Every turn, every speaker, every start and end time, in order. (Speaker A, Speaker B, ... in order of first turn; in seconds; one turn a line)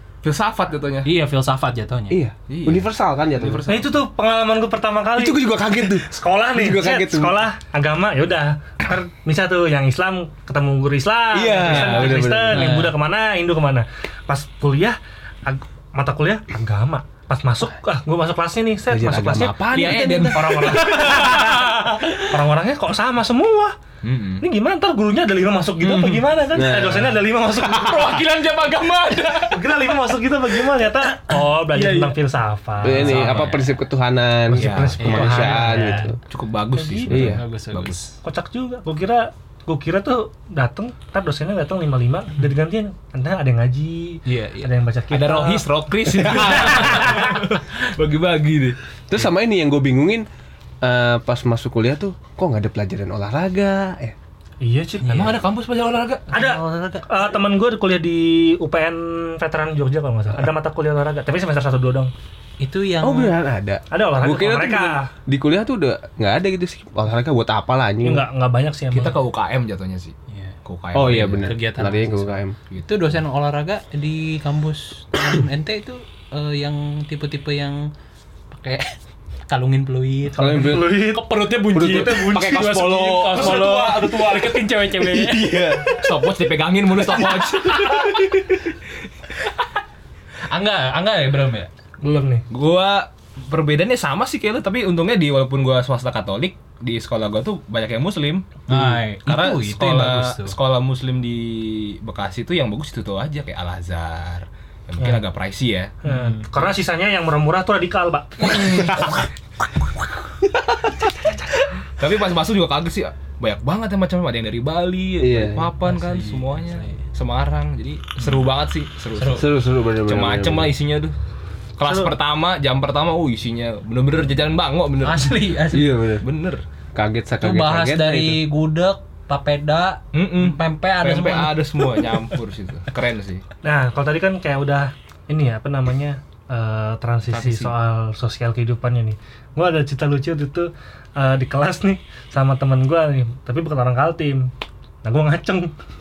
Speaker A: 0.2-1.1
Speaker B: 1.1-2.2
Speaker C: 2.1-3.7
Speaker A: 2.5-2.9
Speaker A: 3.4-3.8
Speaker D: 3.7-19.6
Speaker C: 5.2-7.4
Speaker C: 11.3-12.7
Speaker A: 11.7-12.1
Speaker B: 12.5-12.9
Speaker C: 18.9-20.7
Speaker A: 19.7-21.7
Speaker D: 20.3-23.8
Speaker B: 21.2-21.4
Speaker A: 24.0-24.4
Speaker D: 24.4-28.2
Speaker A: 25.8-26.4
Speaker C: 26.5-27.2
Speaker A: 27.5-29.8
Speaker D: 29.5-33.4
Speaker A: 31.7-32.1
Speaker C: 32.8-36.2
Speaker B: 32.9-33.8
Speaker A: 33.1-33.5
Speaker D: 34.5-36.1
Speaker A: 34.5-35.3
Speaker B: 35.0-36.0
Speaker A: 36.3-38.0
Speaker D: 36.8-37.2
Speaker C: 37.1-37.4
Speaker B: 37.1-38.2
Speaker D: 38.2-45.6
Speaker A: 44.4-48.8
Speaker D: 46.2-47.4
Speaker C: 49.1-50.3
Speaker C: 50.8-54.2
Speaker D: 54.6-55.3
Speaker B: 55.0-55.4
Speaker A: 55.1-56.3
Speaker D: 56.3-62.1
Speaker B: 56.3-57.1
Speaker B: 62.6-63.4
Speaker C: 63.0-68.3
Speaker D: 63.9-65.1
Speaker D: 68.0-69.2
Speaker A: 68.9-70.1
Speaker B: 70.3-70.5
Speaker A: 70.7-71.5
Speaker C: 70.9-72.6
Speaker B: 71.4-77.9
Speaker B: 78.5-79.0
Speaker B: 79.5-85.7
Speaker C: 80.4-81.1
Speaker D: 80.4-84.5
Speaker C: 81.7-84.2
Speaker C: 84.9-86.0
Speaker A: 86.0-88.6
Speaker B: 87.6-88.2
Speaker B: 90.5-91.7
Speaker D: 92.0-92.5
Speaker A: 92.5-105.9
Speaker B: 98.7-100.6
Speaker D: 106.0-109.1
Speaker B: 106.0-106.5
Speaker D: 111.1-111.5
Speaker A: 112.0-119.5
Speaker C: 115.2-115.7
Speaker B: 115.8-117.0
Speaker B: 119.2-119.5
Speaker C: 119.3-120.7
Speaker A: 120.1-121.2
Speaker A: 121.8-125.5
Speaker D: 121.8-122.1
Speaker B: 125.0-125.9
Speaker C: 125.7-126.2
Speaker A: 126.2-126.6
Speaker C: 127.0-128.4
Speaker B: 127.4-131.6
Speaker A: 130.1-133.4
Speaker D: 133.6-144.5
Speaker A: 137.3-137.7
Speaker D: 145.0-145.8